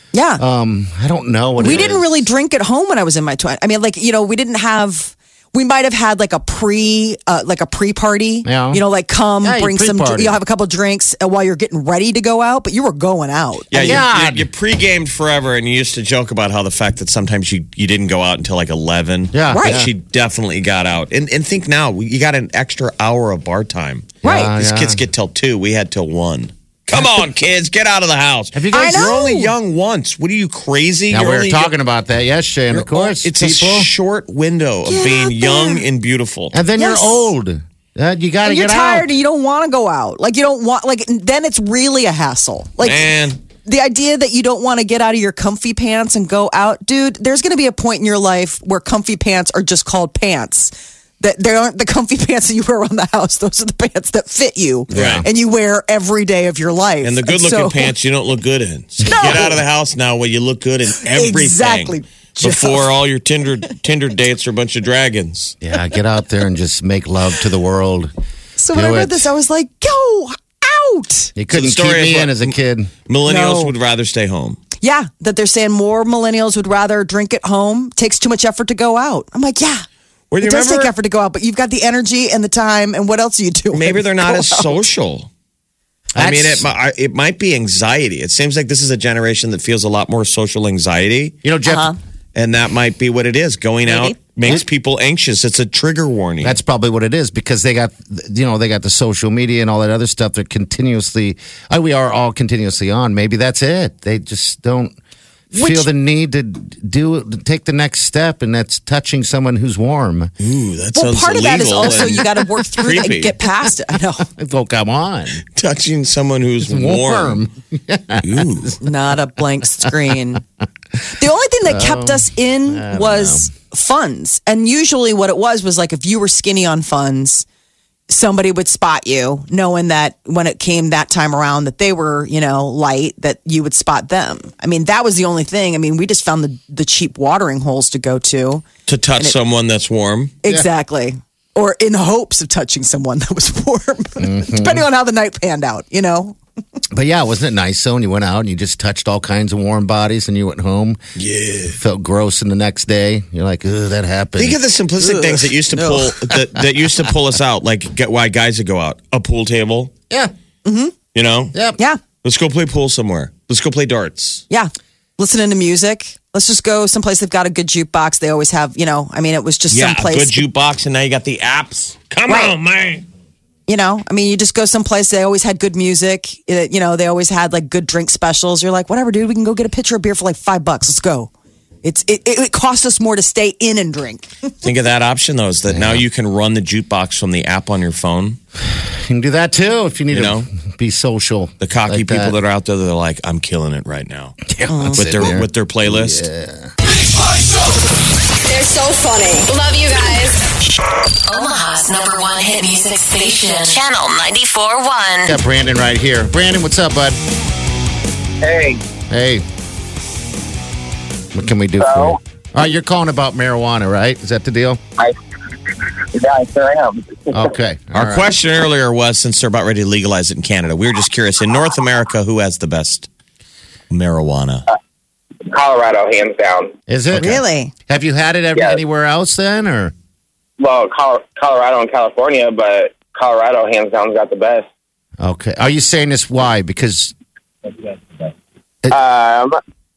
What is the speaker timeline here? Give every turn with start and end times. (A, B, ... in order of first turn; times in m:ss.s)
0:00.1-0:00.4 A
0:00.4-0:02.1 B
0:01.6-0:14.0 A
0:08.4-0:08.8 B
0:09.4-0:10.4 B
0:13.7-0:31.7 C
0:13.8-0:14.5 B
0:19.3-0:19.9 B
0:19.5-0:19.8 A
0:24.2-0:24.5 A
0:24.2-0:25.0 B
0:28.5-0:29.3 B
0:28.7-0:29.5 A
0:31.1-0:33.9 B
0:32.7-0:36.6 C
0:34.9-0:35.8 A
0:36.5-0:39.1 B
0:36.8-0:37.3 A
0:38.4-0:43.0 A
0:42.8-0:43.4 C
0:43.6-0:57.9 A
0:54.9-0:55.3 B
0:54.9-0:55.2 C
0:57.0-1:05.6 C
0:59.1-0:59.6 A
1:01.0-1:02.9 A
1:05.6-1:08.1 B
1:08.6-1:11.3 A
1:08.7-1:09.3 B
1:11.4-1:12.9 B
1:11.5-1:12.6 C
1:13.1-1:14.6 C
1:13.3-1:13.7 A
1:14.8-1:19.8 A
1:20.3-1:20.9 C
1:20.4-1:24.7 A
1:23.7-1:25.3 C
1:26.1-1:26.7 B
1:26.2-1:31.4 C
1:31.4-1:31.9 B
1:31.7-1:32.0 A
1:32.4-1:36.6 C
1:33.9-1:34.2 A
1:36.4-1:45.0 B
1:45.5-1:50.3 B
1:45.5-1:45.9 A
1:50.4-1:53.4 C
1:50.9-1:54.3 A
1:54.2-1:55.4 B
1:55.6-1:57.4 C
1:56.6-1:58.8 B
1:58.2-1:58.8 C
1:58.8-2:00.4 A
2:01.1-2:07.4 A
2:01.6-2:03.5 B
2:08.1-2:18.6 A
2:18.9-2:20.4 C
2:20.4-2:26.4 A
2:24.2-2:24.8 B
2:26.9-2:31.0 B
2:31.2-2:31.8 C
2:31.7-2:34.6 B
2:34.4-2:39.9 C
2:40.6-2:40.9 A
2:41.1-2:41.6 C
2:41.5-2:41.8 B
2:42.2-2:44.4 C
2:44.5-2:50.4 A
2:49.7-2:53.0 C
2:52.3-2:52.6 A
2:53.7-3:01.3 A
3:01.8-3:04.3 A
3:04.6-3:08.4 C
3:05.7-3:06.0 B
3:08.7-3:12.4 B
3:10.1-3:10.5 C
3:11.6-3:16.3 C
3:14.5-3:16.7 B
3:14.7-3:15.1 A
3:17.3-3:17.8 D
3:18.4-3:20.5 D
3:21.3-3:25.4 E
3:25.2-3:27.2 B
3:28.4-3:28.8 F
3:29.1-3:29.5 B
3:31.3-3:34.8 B
3:31.8-3:32.2 F
3:36.0-3:37.5 F
3:37.3-3:38.3 B
3:37.9-3:43.1 C
3:43.9-3:44.7 C
3:45.5-3:46.8 F
3:46.9-3:49.9 B
3:47.1-3:47.7 A
3:50.6-3:54.7 F
3:55.2-3:57.1 B
3:58.9-3:59.6 F